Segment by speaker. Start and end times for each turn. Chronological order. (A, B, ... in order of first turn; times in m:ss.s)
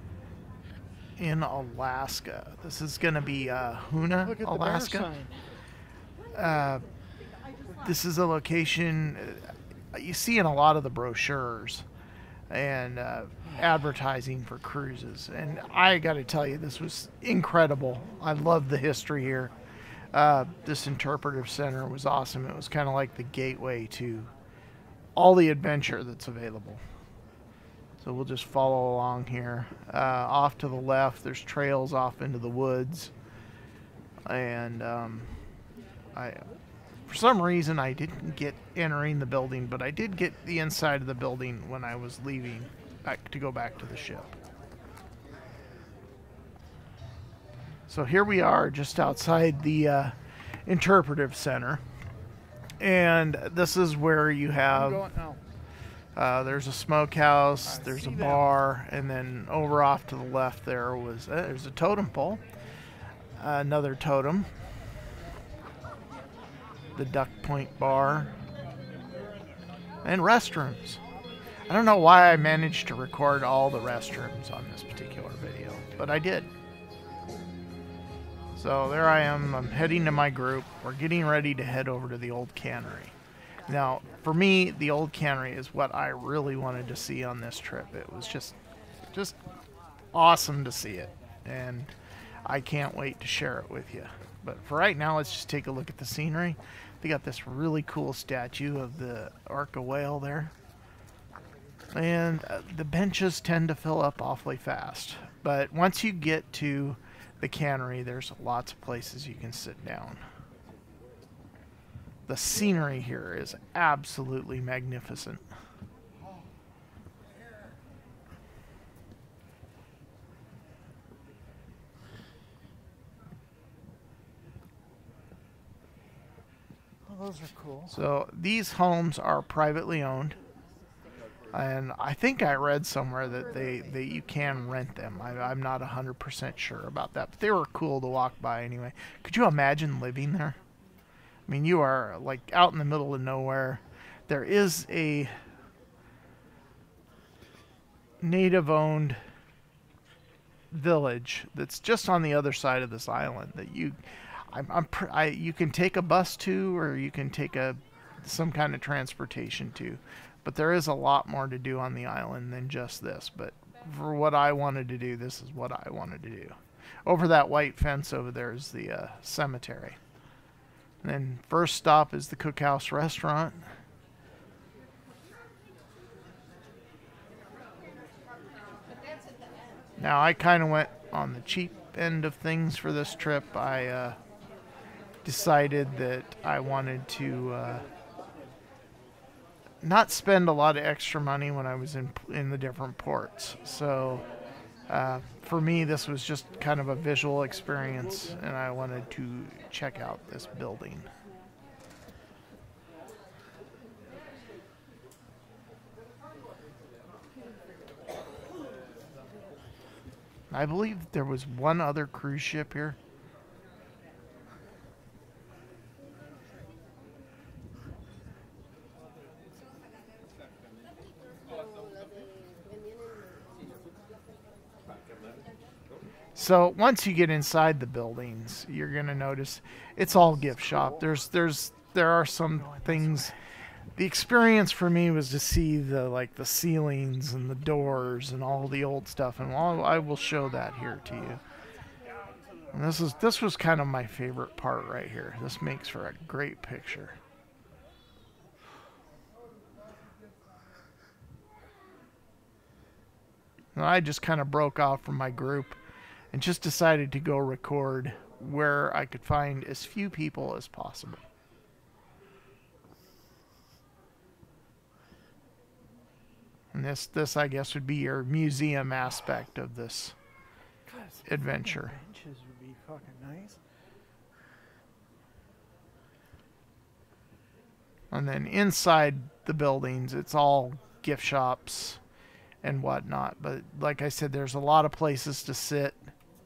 0:01.2-0:05.1 A
0:04.2-0:05.4 B
0:06.3-0:06.9 A
0:07.8-0:11.9 A
0:12.5-0:19.5 A
0:20.1-0:24.3 A
0:25.2-0:26.8 A
0:28.0-0:33.1 A
0:34.3-0:35.4 A
0:36.2-0:36.5 A
0:37.1-0:44.3 A
0:47.9-0:51.8 A
0:52.8-0:55.1 A
0:54.7-0:55.4 B
0:56.2-1:02.4 A
0:57.6-0:58.4 B
1:03.4-1:04.5 A
1:07.0-1:08.4 A
1:10.0-1:11.0 A
1:11.7-1:16.5 A
1:18.6-1:23.1 A
1:23.7-1:28.6 A
1:30.1-1:31.9 A
1:32.4-1:40.5 A
1:41.9-1:50.3 A
1:52.3-1:55.5 A
2:07.1-2:08.0 B
2:07.9-2:10.4 A
2:11.5-2:20.6 A
2:21.5-2:25.3 A
2:28.2-2:29.2 A
2:30.7-2:50.0 A
2:51.0-2:53.7 A
3:00.0-3:04.2 A
3:05.2-3:07.9 A
3:09.8-3:14.2 A
3:14.9-3:21.1 A
3:30.5-3:33.0 A
3:46.4-3:53.3 A
3:52.6-3:53.3 B
3:54.0-4:01.4 A
4:02.7-4:07.2 A
4:13.8-4:15.8 A
4:16.3-4:21.2 A
4:26.7-4:30.2 A
4:30.9-4:33.6 B
4:31.2-4:32.0 A
4:38.1-4:42.0 A
4:42.6-4:46.1 A